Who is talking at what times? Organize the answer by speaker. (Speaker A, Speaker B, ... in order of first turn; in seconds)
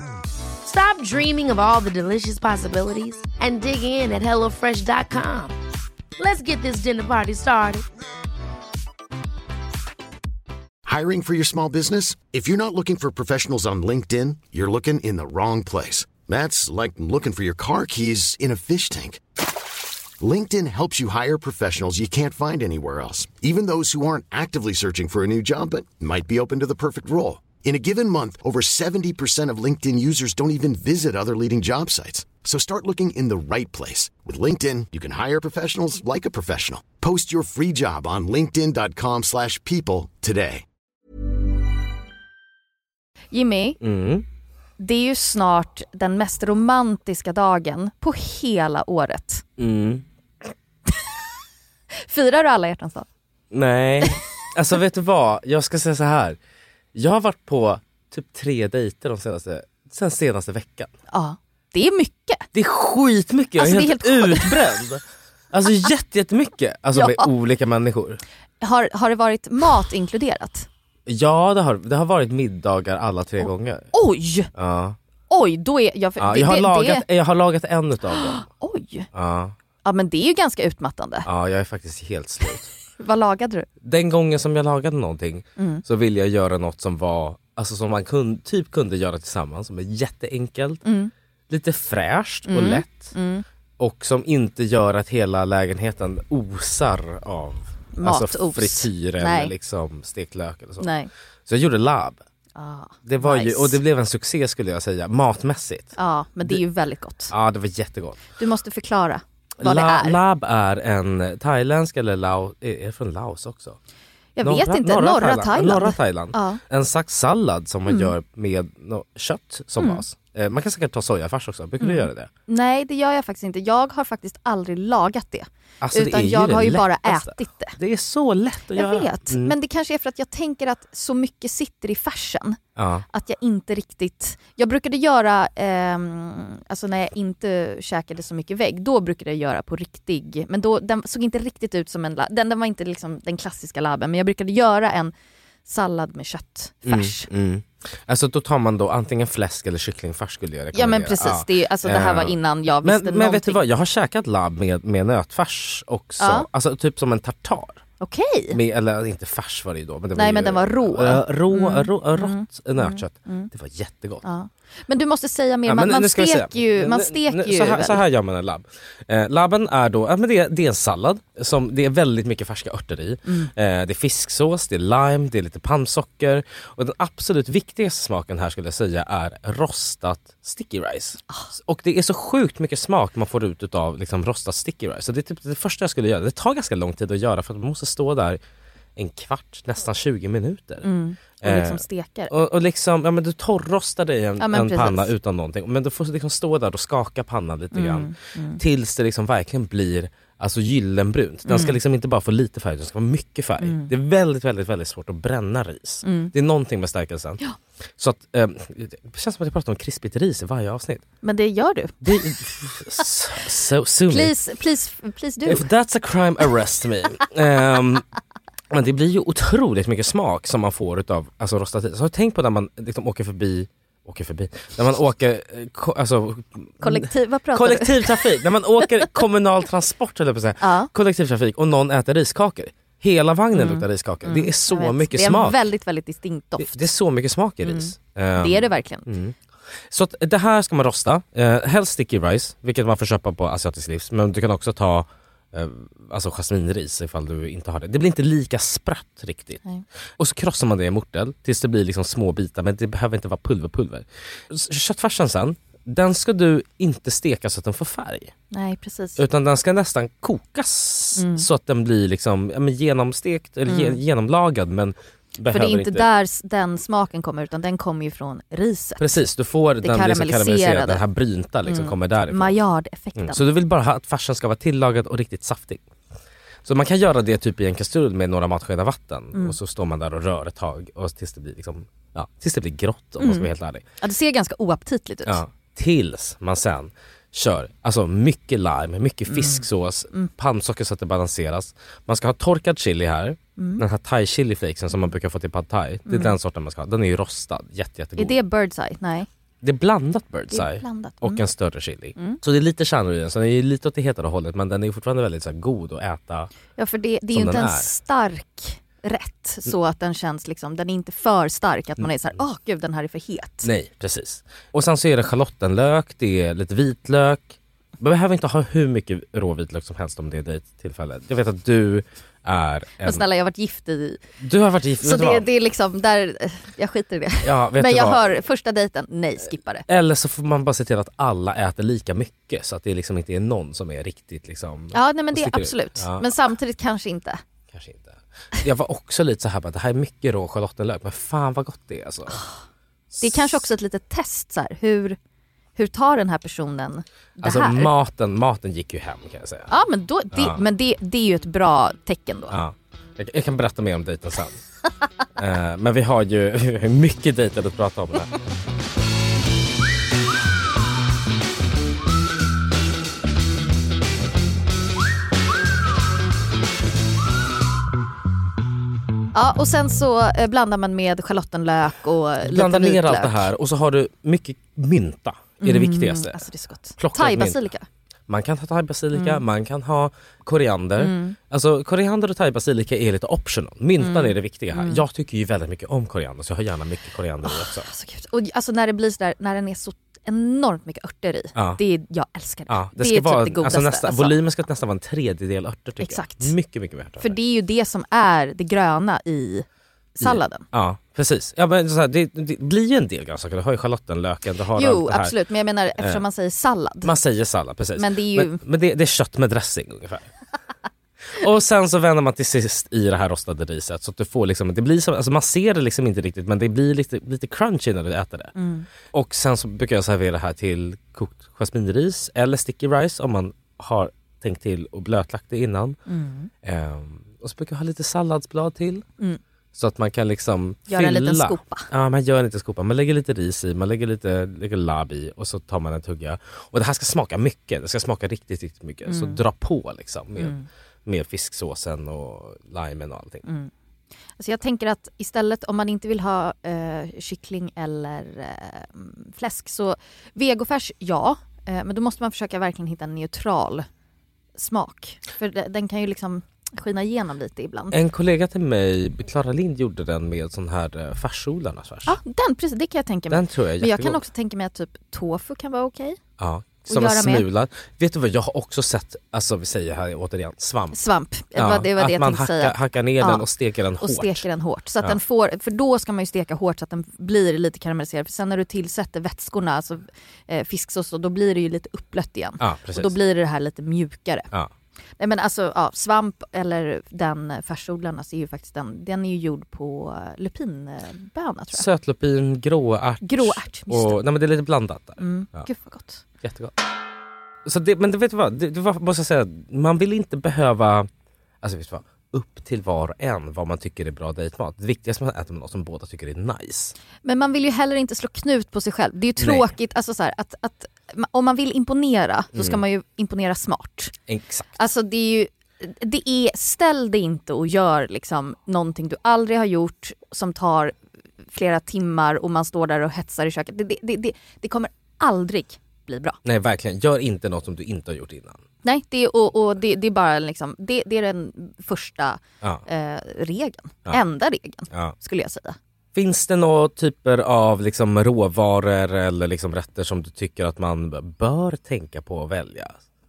Speaker A: 0.6-5.5, 6.2-7.9
Speaker B: 10.9-19.2, 20.2-40.6
Speaker C: 43.3-43.8, 44.8-49.4, 52.0-53.1, 61.1-62.5, 63.6-64.7, 66.9-67.3, 68.6-70.7, 73.4-74.5, 75.3-77.0, 78.1-79.1, 79.8-81.3, 83.0-83.7, 85.6-85.8, 90.8-91.1, 92.5-93.4, 97.9-99.5, 100.8-101.1, 102.6-103.8, 106.0-107.3, 108.4-110.2, 114.4-116.6, 117.9-118.1, 119.8-120.0, 121.8-127.8, 128.8-132.6, 133.1-145.1, 145.7-147.3, 150.7-153.6, 156.2-156.5, 158.0-158.6, 160.2-163.5, 164.2-168.0, 173.2-173.5, 190.8-192.3, 194.4-195.1, 197.7-198.6, 201.5-201.8, 203.6-203.9, 206.0-206.3, 211.2-212.3, 214.1-215.7, 226.8-228.3, 230.6-230.9, 233.5-236.9, 237.6-239.1, 258.5-259.2, 261.2-261.5, 263.7-264.0, 265.5-269.2, 269.8-271.0, 271.7-273.4, 283.2-283.5, 284.0-285.4, 289.3-290.3, 293.6-293.8, 296.1-296.4, 298.2-299.3, 300.5-301.4, 306.8-313.7, 323.0-324.2, 325.0-329.9, 334.9-337.4, 343.2-345.2, 345.8-347.9, 349.7-352.6, 369.3-373.5, 375.6-377.9, 379.1-379.4, 381.0-381.4, 384.0-385.0, 387.4-394.4, 396.0-396.5, 397.2-399.7, 400.2-400.7, 404.8-407.1, 408.0-408.6, 418.6-418.9, 426.1-426.5, 430.9-431.9, 439.1-439.4, 440.4-440.7, 443.4-443.7, 444.4-453.9, 454.6-458.0, 462.1-466.2, 466.9-467.5, 470.9-473.4, 474.0-484.5, 485.2-491.9, 493.2-494.2, 495.2-496.2, 507.2-514.1, 514.8-521.0, 521.5-526.4, 528.8-535.8
Speaker D: 43.8-44.3, 49.6-50.0, 53.5-56.4, 56.9-60.9, 62.5-68.2, 71.1-73.9, 74.5-75.0, 76.2-78.5, 79.1-79.5, 81.3-82.7, 83.8-90.8, 91.5-93.1, 93.8-100.9, 101.5-102.2, 103.1-105.9, 107.3-108.3, 109.6-113.8, 114.4-122.3, 125.8-129.5, 132.8-133.1, 146.9-157.8, 158.5-164.2, 165.7-188.4, 189.0-190.9, 191.4-207.4, 208.0-211.1, 212.0-214.3, 215.4-218.1, 218.7-235.6, 236.6-239.3, 239.9-249.6, 250.2-258.3, 259.2-266.1, 269.0-272.6, 273.2-275.8, 276.6-283.8, 285.3-298.4, 299.6-306.5, 307.3-307.9, 313.6-323.2, 324.4-325.5, 327.4-328.3, 329.9-336.2, 337.7-342.4, 343.1-343.7, 347.4-349.7, 350.3-350.6, 352.5-354.6, 355.4-358.3, 372.4-377.6, 378.3-387.9, 391.6-391.8, 392.7-397.4, 400.2-405.3, 407.0-410.3, 411.3-418.5, 419.1-426.0, 426.6-429.1, 429.8-440.6, 441.1-443.4, 457.9-462.2, 463.3-464.2, 466.4-471.0, 471.6-474.4, 482.6-483.1, 491.7-495.7, 496.4-496.8, 497.6-501.1, 501.6-506.9, 509.4-509.7, 514.3-514.7, 526.5-528.6, 536.1-543.0